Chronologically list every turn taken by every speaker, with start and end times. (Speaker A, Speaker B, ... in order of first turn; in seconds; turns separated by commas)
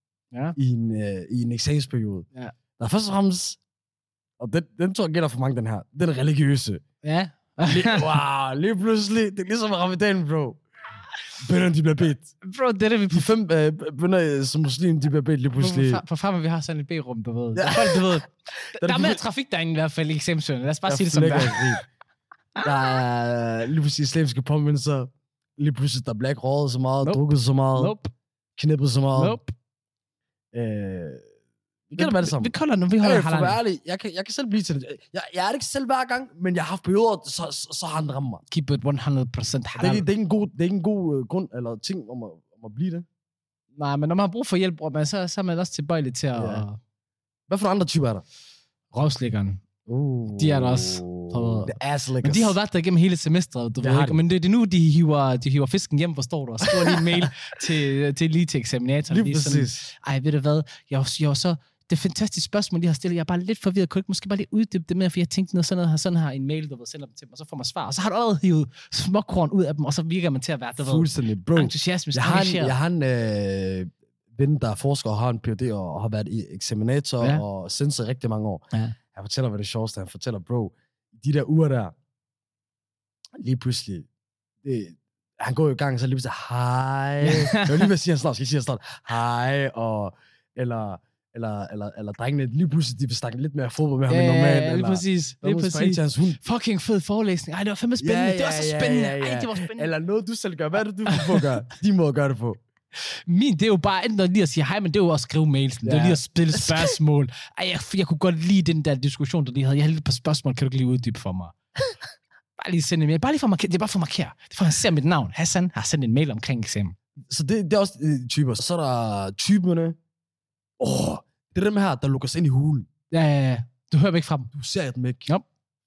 Speaker A: 0.6-2.3, Speaker A: 2.8-3.6, Speaker A: 4.4-6.8, Speaker B: 7.0-8.2, Speaker A: 7.7-10.6, Speaker A: 11.4-12.3, Speaker B: 12.4-13.3, Speaker A: 13.1-16.0, Speaker B: 15.6-21.8, Speaker A: 17.6-19.2, Speaker A: 20.9-21.8, Speaker A: 22.6-27.9, Speaker B: 27.8-28.1, Speaker A: 28.6-29.4, Speaker B: 29.1-29.5, Speaker A: 30.5-31.2, Speaker A: 31.9-38.4, Speaker B: 32.0-33.6, Speaker B: 38.5-40.1, Speaker A: 39.8-43.1, Speaker B: 43.8-46.8, Speaker A: 46.4-46.6, Speaker A: 47.5-48.2, Speaker B: 48.9-49.6, Speaker A: 49.9-52.6, Speaker B: 50.3-72.8, Speaker A: 53.8-54.2, Speaker A: 56.6-57.3, Speaker A: 59.1-59.9, Speaker A: 70.8-82.0, Speaker A: 83.4-84.1, Speaker A: 84.6-96.4, Speaker B: 87.2-87.9, Speaker B: 94.1-99.9, Speaker A: 98.0-102.6, Speaker B: 101.1-101.4, Speaker B: 103.0-111.6, Speaker A: 105.8-107.0, Speaker B: 112.6-117.0, Speaker A: 117.3-120.0, Speaker A: 120.8-122.9, Speaker B: 123.1-124.5, Speaker A: 124.5-125.3